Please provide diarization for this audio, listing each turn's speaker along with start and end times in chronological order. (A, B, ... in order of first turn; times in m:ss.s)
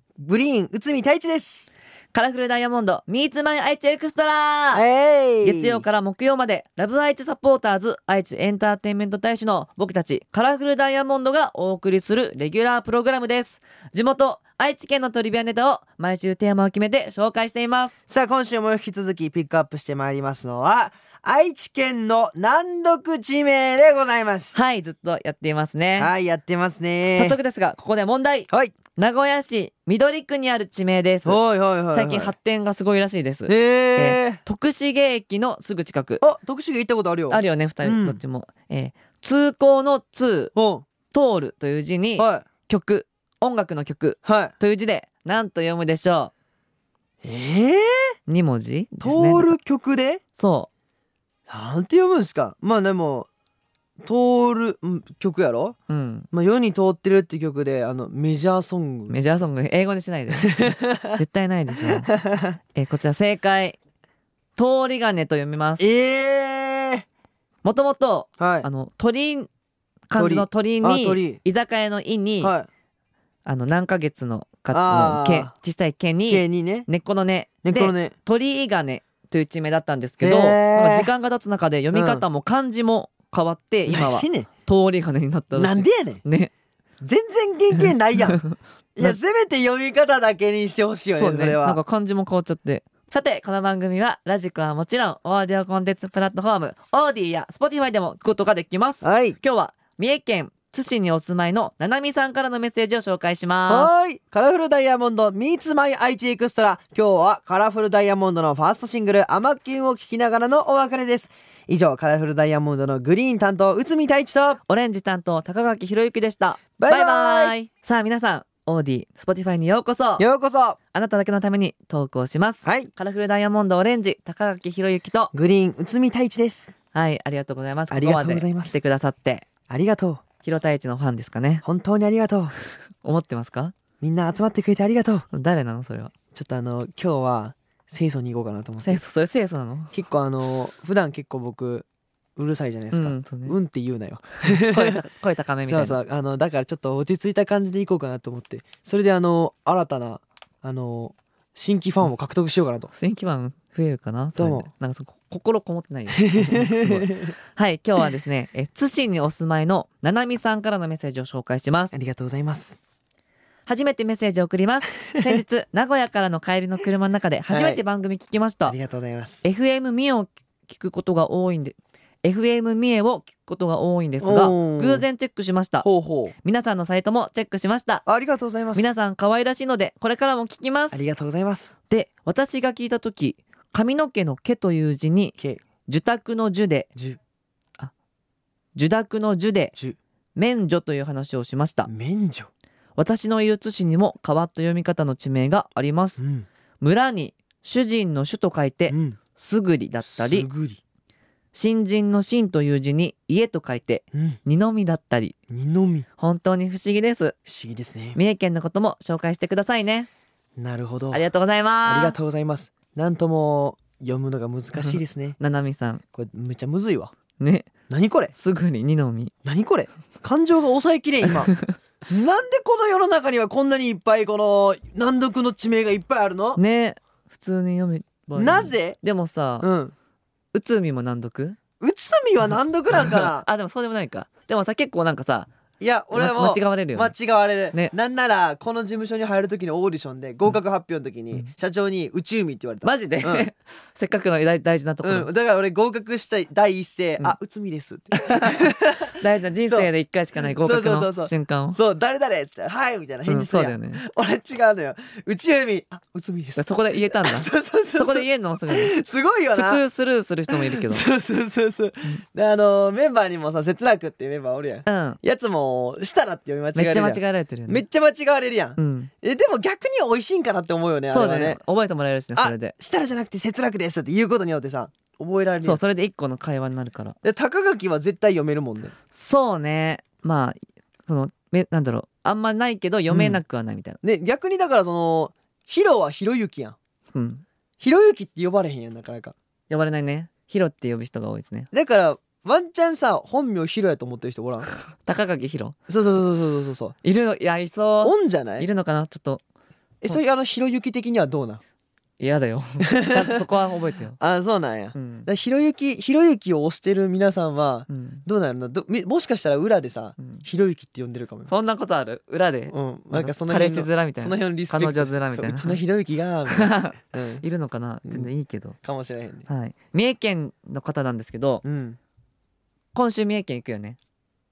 0:00.2-0:01.7 A
0:02.1-0:04.8 B
0:04.7-0:05.8 A
0:05.4-0:18.0 B
0:18.1-0:24.6 A
0:24.5-0:26.1 B
0:26.0-0:27.4 A
0:27.1-0:31.4 B
0:28.5-0:28.8 A
0:31.2-0:32.3 A
0:31.9-0:36.2 B
0:33.5-0:34.4 A
0:36.2-0:38.2 A
0:37.3-0:40.5 B
0:40.6-0:40.9 A
0:41.1-0:46.3 B
0:42.2-0:42.5 A
0:44.2-0:44.5 A
0:47.2-0:48.1 A
0:48.3-0:49.6 B
0:49.0-0:50.2 A
0:50.4-0:50.7 B
0:51.5-0:53.3 A
0:54.0-0:55.8 A
0:55.9-0:56.3 B
0:56.3-0:59.2 A
0:59.1-1:02.1 B
1:00.3-1:01.2 A
1:01.8-1:02.6 A
1:02.8-1:03.8 B
1:04.6-1:05.9 B
1:05.8-1:07.1 A
1:07.6-1:09.5 B
1:08.4-1:08.7 A
1:10.1-1:12.6 B
1:10.2-1:11.4 A
1:12.4-1:12.7 A
1:13.4-1:26.5 B
1:14.7-1:15.5 A
1:16.3-1:16.9 A
1:17.6-1:18.1 A
1:20.2-1:21.1 A
1:21.9-1:22.2 A
1:23.9-1:24.5 A
1:25.5-1:26.2 A
1:27.0-1:28.4 A
1:27.8-1:29.2 B
1:29.0-1:31.8 A
1:31.2-1:43.9 B
1:39.0-1:39.4 A
1:43.7-1:54.6 A
1:54.7-2:00.2 B
1:56.8-1:57.6 A
2:00.2-2:00.8 A
2:00.9-2:05.3 B
2:02.6-2:02.9 A
2:05.3-2:06.7 A
2:06.9-2:09.5 B
2:07.9-2:08.8 A
2:09.7-2:10.2 A
2:10.4-2:11.6 B
2:11.6-2:12.5 A
2:13.0-2:13.7 B
2:14.0-2:15.2 A
2:15.3-2:16.1 B
2:16.4-2:19.0 A
2:18.8-2:19.9 B
2:19.9-2:21.9 A
2:22.4-2:25.0 A
2:22.9-2:23.6 B
2:24.5-2:26.0 B
2:25.7-2:32.9 A
2:32.9-2:41.9 B
2:34.4-2:34.7 A
2:36.1-2:37.3 A
2:41.9-2:42.8 A
2:43.7-2:48.8 B
2:45.2-2:45.4 A
2:47.5-2:47.8 A
2:48.7-2:49.4 A
2:49.4-2:55.9 B
2:54.2-2:55.0 A
2:55.8-2:56.3 A
2:56.4-2:58.0 B
2:58.1-2:58.9 A
2:58.8-3:01.0 B
3:00.9-3:01.8 A
3:01.9-3:05.4 B
3:05.9-3:06.9 B
3:08.8-3:09.8 B
3:10.4-3:11.9 B
3:11.9-3:12.5 A
3:13.0-3:16.2 B
3:16.2-3:16.5 A
3:16.8-3:20.5 B
3:18.9-3:19.2 A
3:20.0-3:20.8 A
3:21.5-3:25.4 B
3:24.1-3:24.4 A
3:25.5-3:26.1 A
3:26.2-3:27.3 B
3:27.5-3:28.2 A
3:28.2-3:30.1 B
3:30.6-3:31.2 A
3:31.1-3:32.2 B
3:31.8-3:35.4 A
3:34.8-3:36.0 B
3:36.2-3:37.1 A
3:37.4-3:37.7 B
3:37.9-3:38.3 A
3:38.3-3:39.3 B
3:39.4-3:41.5 A
3:41.3-3:41.7 B
3:42.1-3:46.6 A
3:46.6-3:49.7 B
3:48.4-3:49.0 A
3:49.6-3:49.9 A
3:50.5-3:51.6 B
3:51.8-3:53.5 A
3:52.9-3:55.5 B
3:55.8-4:03.5 A
3:56.1-3:57.1 B
4:02.8-4:05.3 B
4:05.0-4:09.2 A
4:08.3-4:11.8 B
4:09.7-4:19.8 A
4:13.3-4:14.0 B
4:16.6-4:18.9 B
4:19.6-4:21.1 B
4:20.5-4:31.6 A
4:24.9-4:25.2 B
4:26.8-4:27.8 B
4:28.8-4:29.1 B
4:31.1-4:32.8 B
4:32.4-4:35.8 A
4:35.6-4:37.2 B
4:37.2-4:38.9 A
4:39.1-4:44.0 B
4:43.1-4:43.4 A
4:44.0-4:46.8 A
4:47.1-4:47.4 B
4:47.8-4:49.4 A
4:49.7-4:51.7 B
4:51.7-4:54.7 A
4:54.9-4:55.8 B
4:55.9-4:57.0 A
4:57.0-4:59.4 B
4:58.0-4:58.7 A
5:00.0-5:01.6 A
5:02.2-5:04.2 B
5:02.8-5:03.4 A
5:04.2-5:11.5 A
5:05.0-5:05.3 B
5:07.9-5:08.2 B
5:10.2-5:10.4 B
5:11.5-5:15.8 B
5:12.7-5:17.4 A
5:16.5-5:18.8 B
5:18.0-5:18.3 A
5:18.8-5:19.5 A
5:19.5-5:21.6 B
5:21.6-5:22.0 A
5:22.9-5:24.0 B